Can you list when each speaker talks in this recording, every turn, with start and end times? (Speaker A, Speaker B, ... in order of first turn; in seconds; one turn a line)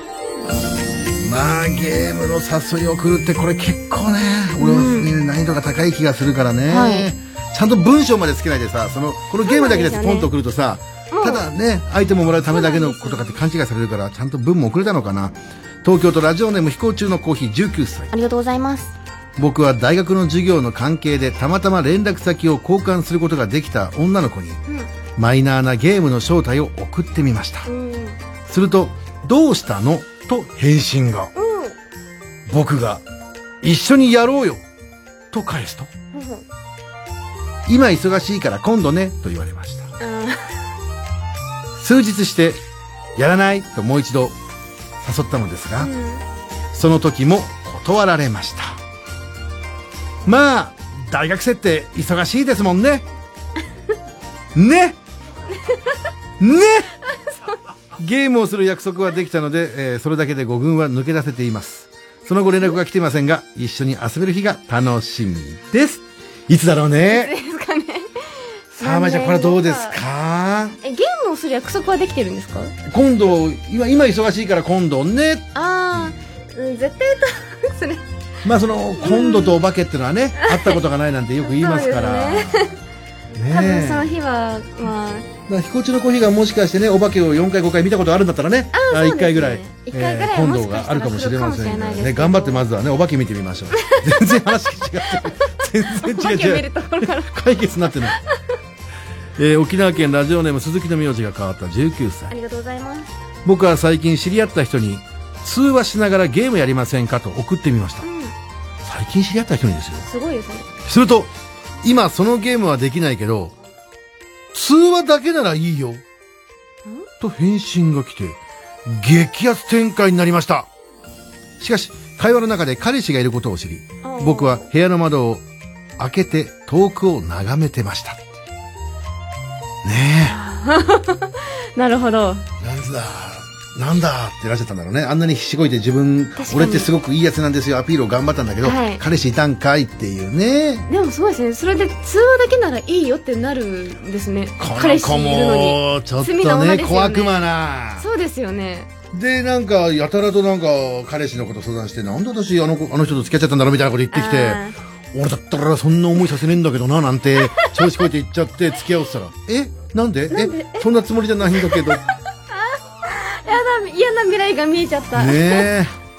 Speaker A: 1.2-18.1
Speaker B: 4.6-5.1
Speaker B: 6.7-7.1
Speaker B: 9.4-10.3
Speaker B: 11.1-11.4
Speaker B: 12.5-13.3
Speaker B: 18.1-18.9
Speaker A: 19.4-24.6
Speaker A: 25.2-27.7
Speaker B: 27.7-28.2
Speaker A: 28.5-31.3
Speaker B: 31.4-31.8
Speaker A: 32.5-33.0
Speaker A: 33.6-34.6
Speaker A: 35.3-35.9
Speaker B: 36.1-36.4
Speaker A: 37.7-39.9
Speaker B: 40.0-40.5
Speaker A: 41.8-42.6
Speaker A: 43.2-44.4
Speaker A: 45.0-45.9
Speaker B: 45.8-46.2
Speaker A: 46.7-48.8
Speaker A: 50.2-53.1
Speaker A: 54.5-55.0
Speaker A: 56.4-56.9
Speaker A: 58.0-67.3
Speaker B: 67.1-70.0
Speaker A: 68.8-70.8
Speaker B: 70.8-72.7
Speaker A: 72.8-76.2
Speaker B: 75.5-78.0
Speaker A: 78.4-82.7
Speaker B: 79.0-79.5
Speaker B: 80.4-80.8
Speaker B: 81.5-82.7
Speaker A: 83.3-84.1
Speaker B: 83.5-85.3
Speaker A: 85.5-98.2
Speaker B: 88.7-92.7
Speaker B: 96.0-97.3
Speaker A: 99.4-102.3
Speaker B: 102.3-103.1
Speaker A: 103.5-108.0
Speaker B: 108.0-108.3
Speaker A: 108.8-110.1
Speaker B: 110.0-110.7
Speaker A: 110.8-113.5
Speaker A: 114.5-116.0
Speaker A: 117.2-120.7
Speaker A: 121.6-125.4
Speaker B: 124.0-124.7
Speaker A: 126.0-128.4
Speaker A: 129.8-130.4
Speaker B: 130.3-132.4
Speaker A: 132.6-140.9
Speaker B: 136.4-136.9
Speaker B: 138.6-139.0
Speaker B: 140.9-147.4
Speaker A: 144.6-148.1
Speaker B: 148.0-148.9
Speaker A: 149.1-162.1
Speaker B: 154.1-154.8
Speaker B: 160.3-160.8
Speaker B: 163.1-165.7
Speaker A: 165.1-165.9